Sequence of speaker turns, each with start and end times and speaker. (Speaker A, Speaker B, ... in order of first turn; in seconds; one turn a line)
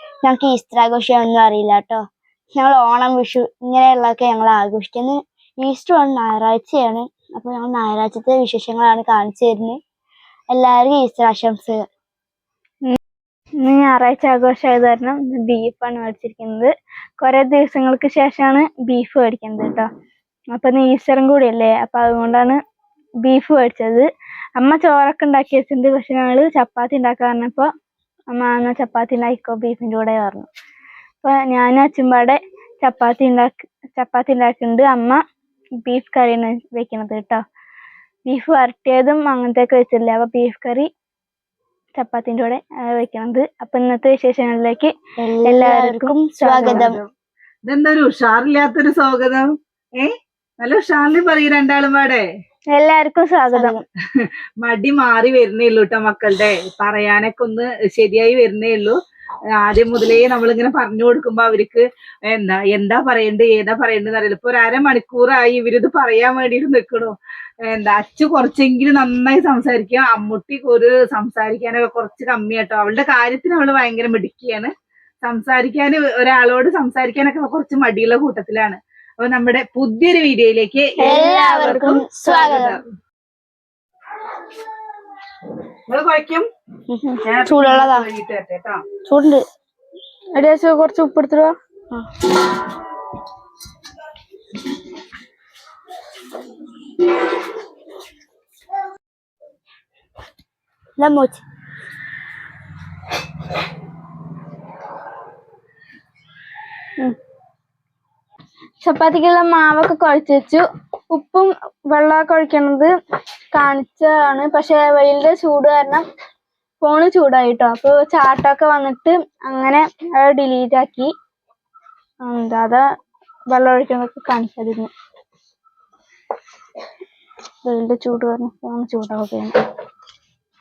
Speaker A: 0.2-2.0
Speaker A: 2.6-9.8
Speaker A: 10.5-11.9
Speaker B: 13.6-19.9
Speaker B: 20.5-22.6
Speaker B: 23.2-27.7
Speaker B: 28.3-30.5
Speaker B: 31.2-35.2
Speaker B: 35.9-37.4
Speaker B: 38.3-40.9
Speaker B: 42.0-44.9
Speaker A: 45.2-47.0
Speaker B: 45.4-47.0
Speaker C: 47.6-49.5
Speaker C: 50.0-52.2
Speaker B: 52.7-53.8
Speaker A: 53.5-53.9
Speaker C: 54.2-59.0
Speaker C: 59.6-74.7
Speaker C: 75.2-82.8
Speaker B: 81.0-82.6
Speaker A: 81.1-82.8
Speaker C: 85.9-86.5
Speaker A: 86.9-88.1
Speaker C: 87.2-88.8
Speaker A: 89.1-89.5
Speaker B: 90.3-91.5
Speaker A: 101.0-101.4
Speaker B: 108.8-112.9
Speaker B: 113.5-116.0
Speaker B: 116.8-121.1
Speaker B: 122.2-122.8
Speaker B: 123.5-124.9
Speaker B: 127.7-129.6